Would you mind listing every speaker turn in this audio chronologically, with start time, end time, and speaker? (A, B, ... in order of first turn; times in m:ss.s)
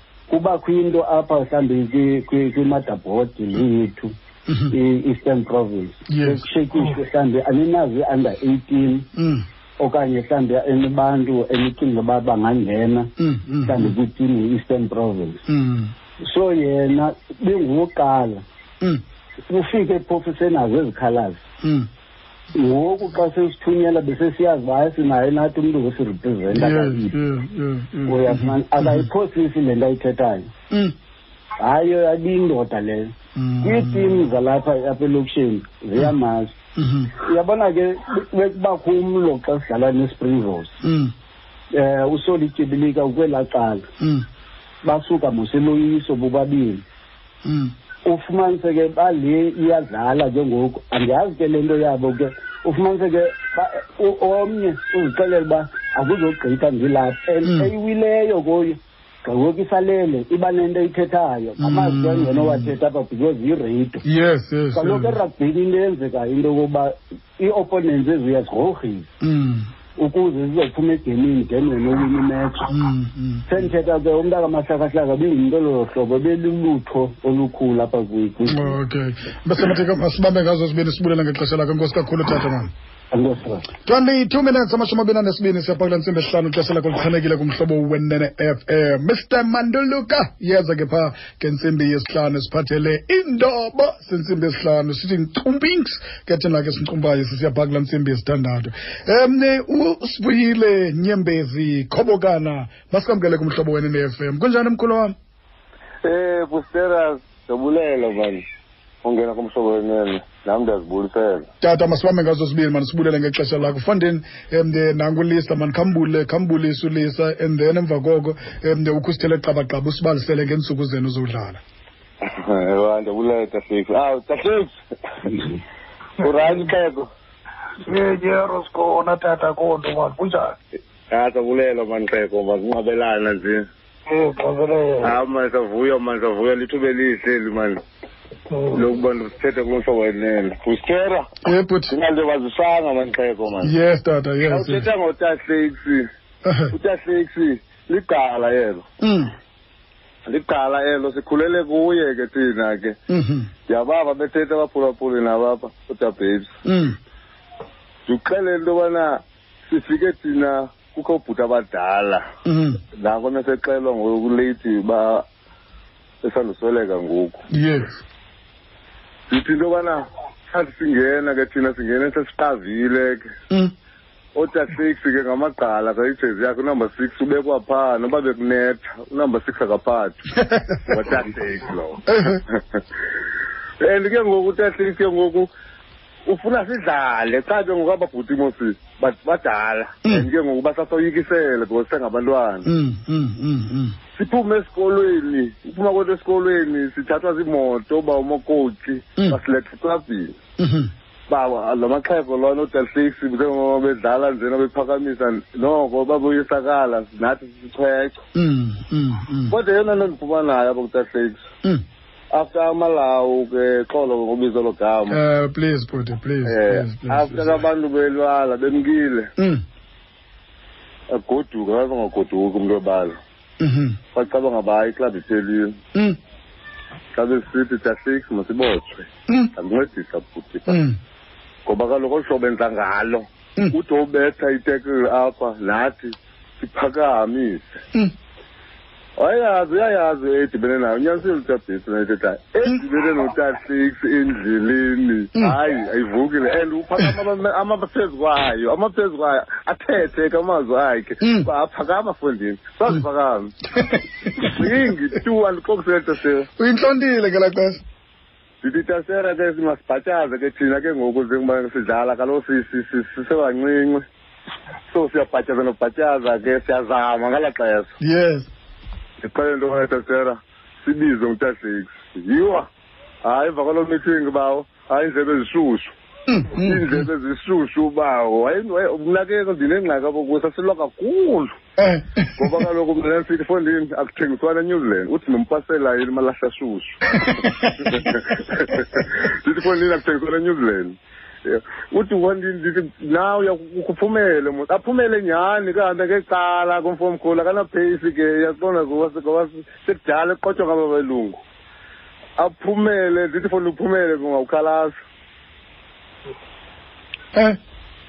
0:00.3-0:04.1 A
0:04.5-0:04.8 B
0:04.7-0:09.1 A
0:06.1-0:06.5 B
0:09.2-0:09.5 B
0:09.8-0:13.1 A
0:13.2-0:14.0 B
0:13.6-0:15.4 A
0:15.5-0:15.9 B
0:16.2-0:18.4 A
0:19.5-0:21.4 A
0:21.6-0:21.9 B
0:22.5-0:27.1 A
0:26.5-0:29.1 B
0:28.1-0:30.5 A
0:31.6-0:36.6 A
0:33.4-0:34.3 B
0:36.8-0:37.1 B
0:37.2-0:40.8 A
0:40.8-0:41.1 B
0:41.7-0:43.9 A
0:44.0-0:44.3 B
0:44.8-0:46.8 A
0:47.4-0:47.7 B
0:48.0-1:04.0 A
0:57.4-0:57.7 B
1:01.6-1:02.7 B
1:04.0-1:05.2 B
1:04.7-1:09.1 A
1:09.2-1:09.7 B
1:10.0-1:12.8 A
1:12.7-1:13.5 B
1:13.5-1:18.8 A
1:18.5-1:22.7 B
1:23.1-1:23.7 A
1:23.9-1:45.2 B
1:46.0-1:48.4 C
1:49.0-1:51.5 C
1:51.6-2:01.6 B
2:02.2-2:05.5 C
2:06.2-2:07.1 C
2:06.2-2:06.7 D
2:07.8-2:10.6 D
2:11.1-2:13.7 C
2:14.1-2:15.2 D
2:15.0-2:17.8 C
2:18.5-2:18.8 D
2:18.7-2:21.3 C
2:21.4-2:22.0 B
2:21.9-2:23.7 C
2:23.6-2:24.9 B
2:24.5-2:26.1 C
2:26.4-2:26.8 B
2:26.7-2:28.8 C
2:29.0-2:29.3 B
2:30.3-2:33.0 C
2:33.1-2:33.5 B
2:33.7-2:36.5 C
2:36.6-2:37.0 B
2:38.1-2:42.3 C
2:42.4-2:42.8 B
2:43.0-2:45.2 C
2:46.2-2:47.4 C
2:47.5-2:48.0 B
2:49.3-2:53.3 C
2:54.4-3:00.2 C
3:00.4-3:01.0 B
3:00.8-3:02.6 C
3:02.1-3:02.4 B
3:03.8-3:05.5 C
3:06.3-3:12.7 C
3:12.6-3:14.0 B
3:14.2-3:20.4 C
3:20.6-3:20.9 B
3:21.3-3:28.2 C
3:28.4-3:29.6 B
3:29.5-3:31.4 C
3:32.3-3:35.2 C
3:35.1-3:37.6 B
3:36.5-3:39.3 C
3:39.4-3:39.6 B
3:41.1-3:43.2 C
3:43.6-3:44.0 B
3:44.1-3:45.8 C
3:47.2-3:50.8 C
3:50.7-3:51.0 B
3:51.7-3:57.7 C
3:59.2-4:13.5 C
4:11.2-4:11.5 B
4:13.7-4:14.8 B
4:14.4-4:16.5 C
4:16.6-4:17.8 B
4:18.6-4:24.0 C
4:24.9-4:27.9 C
4:28.0-4:28.5 B
4:29.2-4:32.7 C
4:33.2-4:35.9 C
4:36.3-4:37.1 B
4:36.6-4:41.6 C
4:41.8-4:42.7 B
4:42.4-5:01.4 C
4:47.1-4:48.1 B
4:48.7-4:49.0 B
5:02.4-5:04.9 C
5:07.3-5:07.6 B